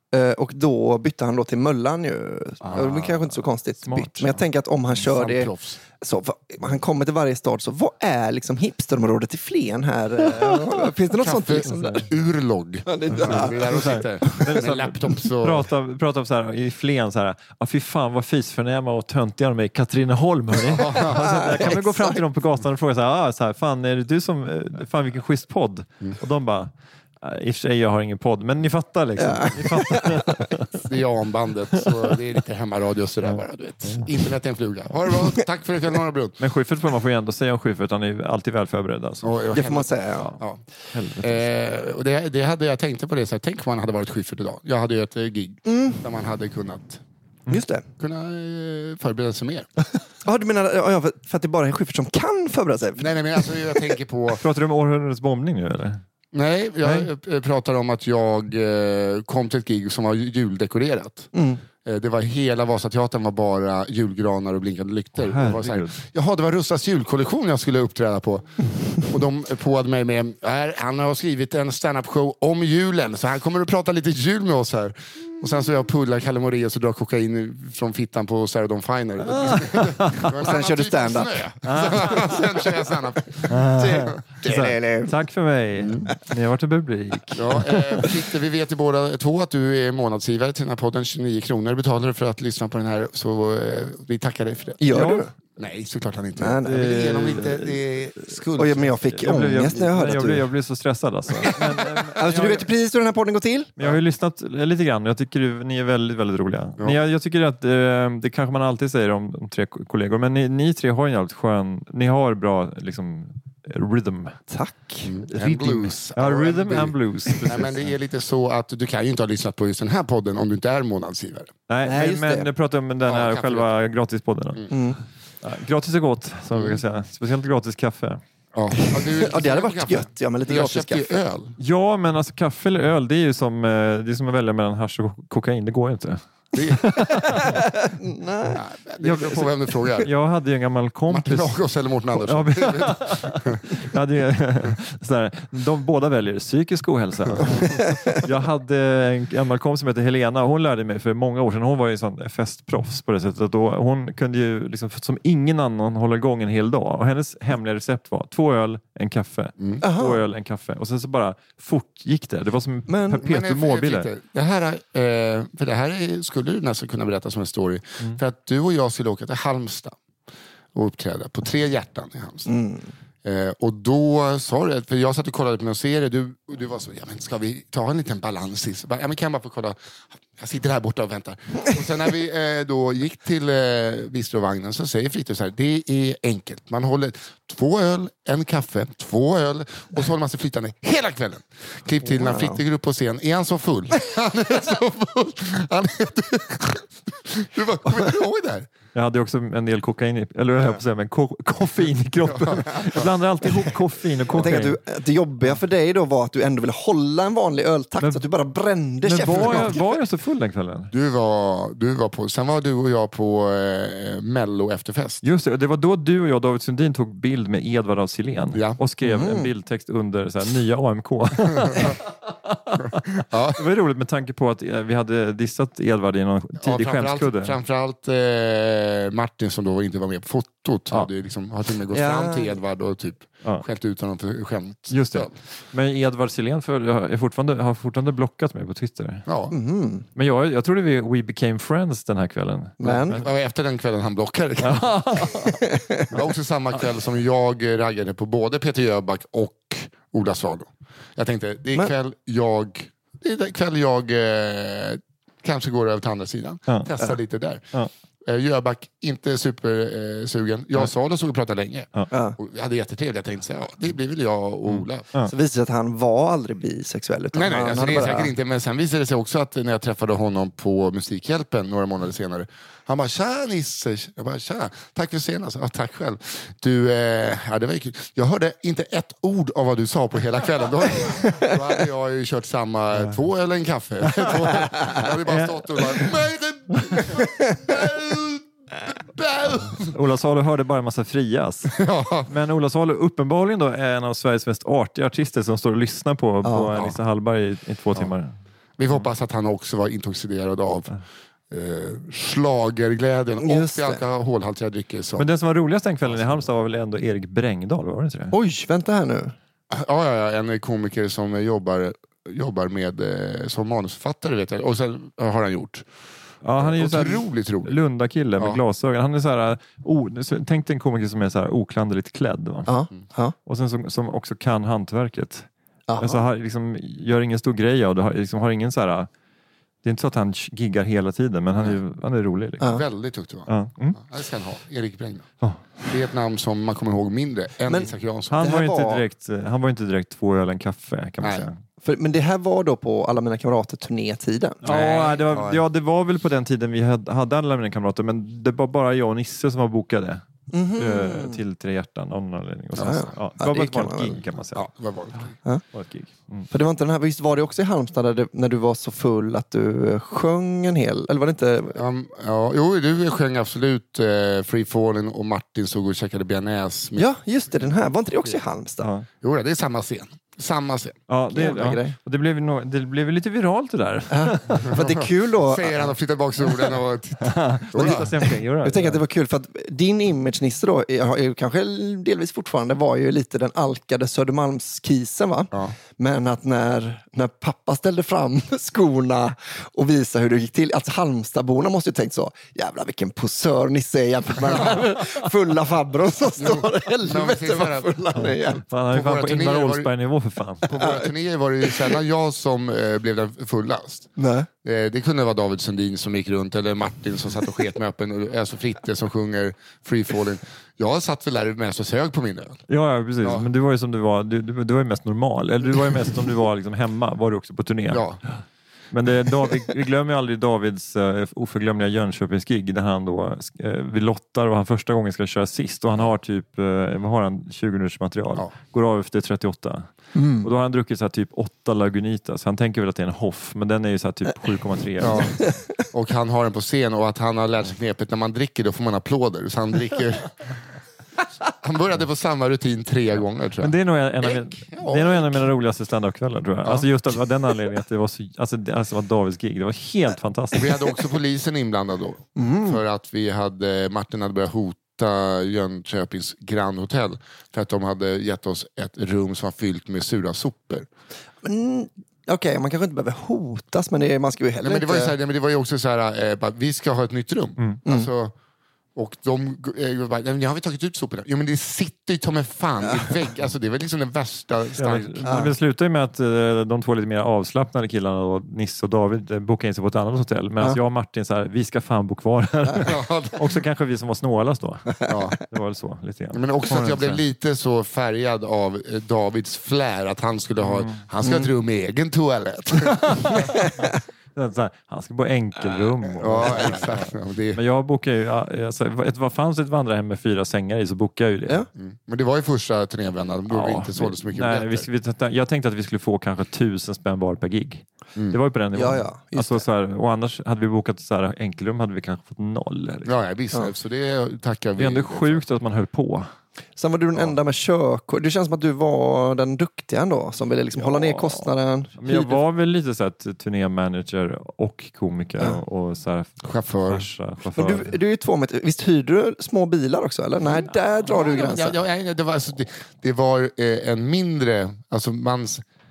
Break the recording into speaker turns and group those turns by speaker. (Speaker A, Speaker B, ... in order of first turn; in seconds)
Speaker A: 0.1-12.1, 12.9-14.6, 21.0-22.2, 29.2-30.4, 39.5-40.3, 45.7-46.0, 47.5-47.9, 50.2-53.9, 61.3-61.6, 80.4-81.5, 83.7-85.2, 94.8-95.3, 96.4-96.9, 98.6-100.5, 102.1-103.7, 114.5-115.9, 121.8-122.5, 124.7-125.0, 128.8-131.2, 137.3-138.6, 159.8-160.2, 162.9-163.2, 172.5-172.9, 192.0-192.6, 204.3-209.8, 219.0-219.5, 231.9-232.6, 239.5-240.1, 242.8-243.2, 245.4-246.1, 262.1-262.4, 265.2-268.3, 296.4-296.9, 303.4-304.0, 308.3-309.3, 322.7-323.3, 325.9-326.2, 332.6-332.9, 337.7-339.1, 341.8-344.7, 350.5-351.4, 352.8-354.2, 356.5-361.8, 366.9-368.9, 371.3-372.0, 374.1-375.9, 378.6-398.6, 400.8-401.1, 401.6-402.0, 404.2-404.5, 430.1-430.5, 444.9-445.2, 452.4-452.8, 461.4-465.1, 467.9-468.1, 475.2-475.5, 491.2-491.5, 508.7-509.6, 516.8-522.4, 527.6-531.8
Speaker B: 2.7-3.2, 5.1-5.8, 11.2-15.7, 20.7-21.3, 30.9-36.4, 39.2-40.6, 41.2-47.0, 48.0-49.7, 53.0-54.4, 56.3-61.3, 61.8-84.7, 85.8-86.1, 87.3-94.9, 95.6-99.0, 115.0-121.5, 123.0-123.7, 128.5-131.6, 136.5-136.9, 138.6-140.1, 141.1-143.6, 163.2-170.0, 170.7-172.5, 173.2-179.8, 180.3-198.7, 202.3-203.1, 209.3-209.8, 210.9-215.2, 218.5-218.8, 223.3-223.6, 226.6-235.3, 239.3-239.5, 242.8-244.9, 246.1-257.6, 258.2-265.1, 267.3-289.9, 291.7-292.3, 298.8-301.0, 301.5-305.3, 306.1-306.4, 309.7-315.9, 316.6-317.8, 332.7-335.3, 335.9-338.4, 344.6-345.6, 352.8-353.1, 354.5-355.3, 361.8-367.1, 369.2-371.0, 375.4-378.3, 396.4-398.0, 398.9-399.9, 400.7-404.1, 404.6-412.6, 413.2-413.5, 417.9-418.2, 435.0-440.3, 441.6-443.8, 444.3-445.1, 450.5-460.9, 464.6-468.3, 468.9-475.4, 482.9-483.5, 485.1-485.4, 486.3-493.4, 496.2-497.6, 501.8-504.9, 513.0-515.5, 526.4-527.1, 530.6-535.6
Speaker C: 2.7-4.4, 11.6-12.1, 13.1-26.7, 27.2-30.8, 33.2-34.1, 36.4-39.3, 40.9-41.5, 54.3-56.0, 56.8-57.1, 65.2-66.0, 79.5-80.3, 81.6-82.5, 83.5-88.2, 94.9-95.3, 96.6-97.9, 99.0-102.7, 103.8-114.3, 116.1-117.9, 121.7-124.7, 125.4-128.2, 131.6-137.6, 139.0-164.1, 198.9-204.8, 208.0-208.2, 209.0-210.9, 215.2-227.6, 234.9-239.3, 240.2-243.3, 244.6-245.7, 256.7-257.1, 264.7-265.3, 285.1-286.1, 289.9-291.7, 292.3-298.3, 305.2-308.4, 316.4-322.7, 323.5-325.5, 326.0-329.1, 329.8-332.8, 333.5-334.0, 335.4-335.8, 338.3-341.6, 344.6-350.2, 350.7-355.2, 355.7-356.5, 371.1-374.8, 377.2-379.0, 398.2-400.7, 412.7-418.0, 418.9-429.9, 430.4-435.4, 443.6-450.9, 474.8-487.2, 490.6-491.0, 493.0-501.6, 503.5-513.1, 514.8-516.3, 520.8-528.0